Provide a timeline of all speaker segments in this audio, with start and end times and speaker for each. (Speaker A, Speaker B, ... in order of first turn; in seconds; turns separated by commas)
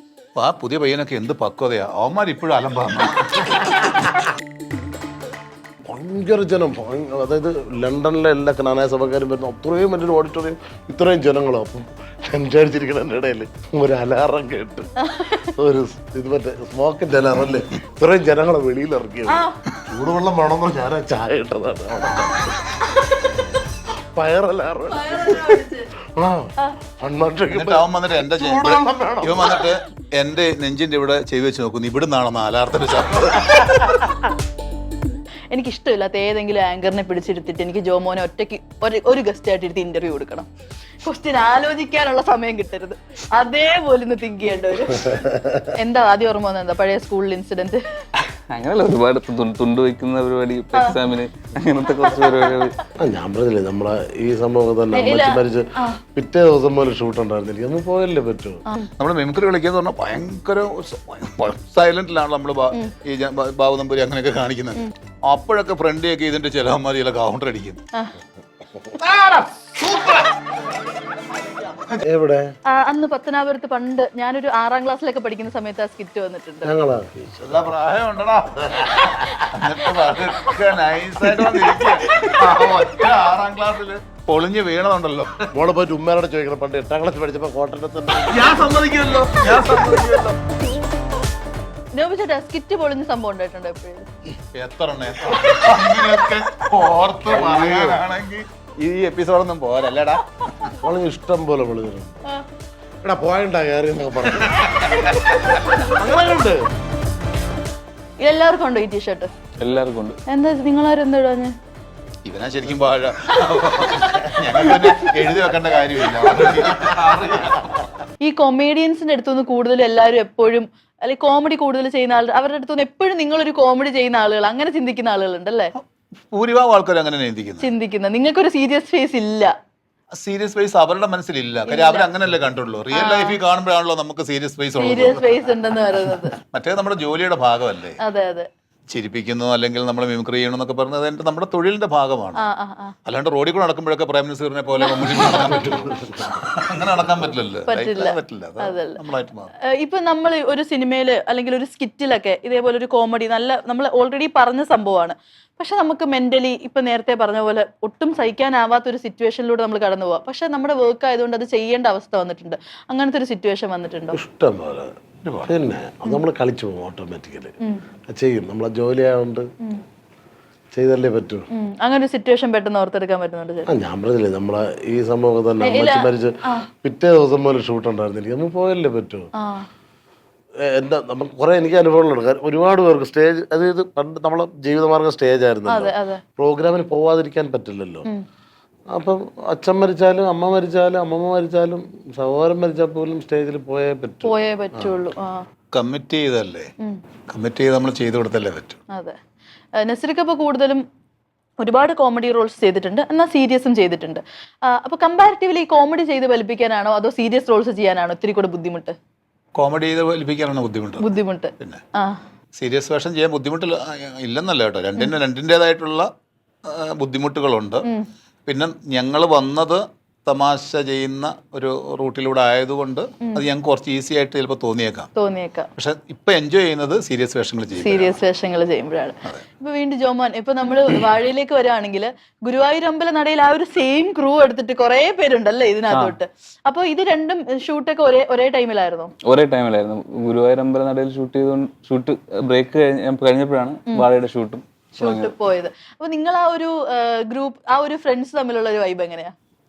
Speaker A: 0.4-3.9, Speaker B: 5.9-14.9, Speaker C: 15.0-15.5, Speaker B: 15.6-22.6, Speaker C: 19.3-19.6, Speaker B: 24.1-29.7, Speaker C: 24.9-25.9, Speaker A: 27.5-34.0, Speaker C: 35.5-40.5, Speaker C: 41.0-45.1, Speaker B: 45.1-45.7, Speaker C: 45.8-47.8, Speaker D: 48.2-52.8, Speaker B: 53.0-58.6, Speaker C: 54.9-56.0, Speaker A: 59.0-67.8, Speaker A: 69.0-70.3, Speaker A: 71.6-72.0, Speaker B: 72.0-72.5, Speaker C: 72.7-76.7, Speaker B: 76.6-77.3, Speaker A: 77.4-85.5, Speaker C: 80.0-80.3, Speaker B: 85.5-88.5, Speaker A: 88.2-90.4, Speaker C: 92.0-94.1, Speaker A: 94.5-100.7, Speaker B: 97.2-98.0, Speaker B: 100.8-102.2, Speaker B: 103.0-104.7, Speaker A: 104.4-105.5, Speaker B: 106.0-106.6, Speaker C: 108.2-109.3, Speaker D: 109.6-110.2, Speaker C: 110.3-111.5, Speaker A: 112.3-118.0, Speaker C: 114.5-114.9, Speaker C: 118.2-125.7, Speaker A: 126.3-127.7, Speaker C: 127.6-129.5, Speaker A: 130.2-135.3, Speaker C: 131.7-132.1, Speaker C: 132.9-133.4, Speaker C: 134.8-136.4, Speaker A: 136.5-138.0, Speaker C: 138.0-138.5, Speaker A: 138.9-142.4, Speaker C: 142.4-142.9, Speaker A: 143.1-149.5, Speaker C: 144.8-145.8, Speaker C: 147.7-149.0, Speaker C: 149.7-164.2, Speaker B: 164.1-164.9, Speaker A: 165.2-165.6, Speaker B: 165.4-167.5, Speaker B: 168.1-169.4, Speaker B: 170.8-171.5, Speaker C: 171.6-173.7, Speaker B: 173.7-179.3, Speaker C: 175.6-176.7, Speaker C: 179.4-179.7, Speaker B: 180.6-188.1, Speaker C: 185.7-186.2, Speaker B: 188.9-194.9, Speaker C: 194.2-195.4, Speaker A: 195.7-196.7, Speaker A: 197.3-198.8, Speaker C: 199.8-200.8, Speaker C: 201.6-208.9, Speaker A: 209.6-211.1, Speaker C: 211.0-212.2, Speaker A: 212.6-216.1, Speaker A: 216.7-217.9, Speaker A: 218.5-225.1, Speaker C: 225.2-225.7, Speaker A: 225.8-228.2, Speaker C: 227.7-239.1, Speaker D: 235.9-236.2, Speaker D: 239.2-245.3, Speaker C: 245.0-249.3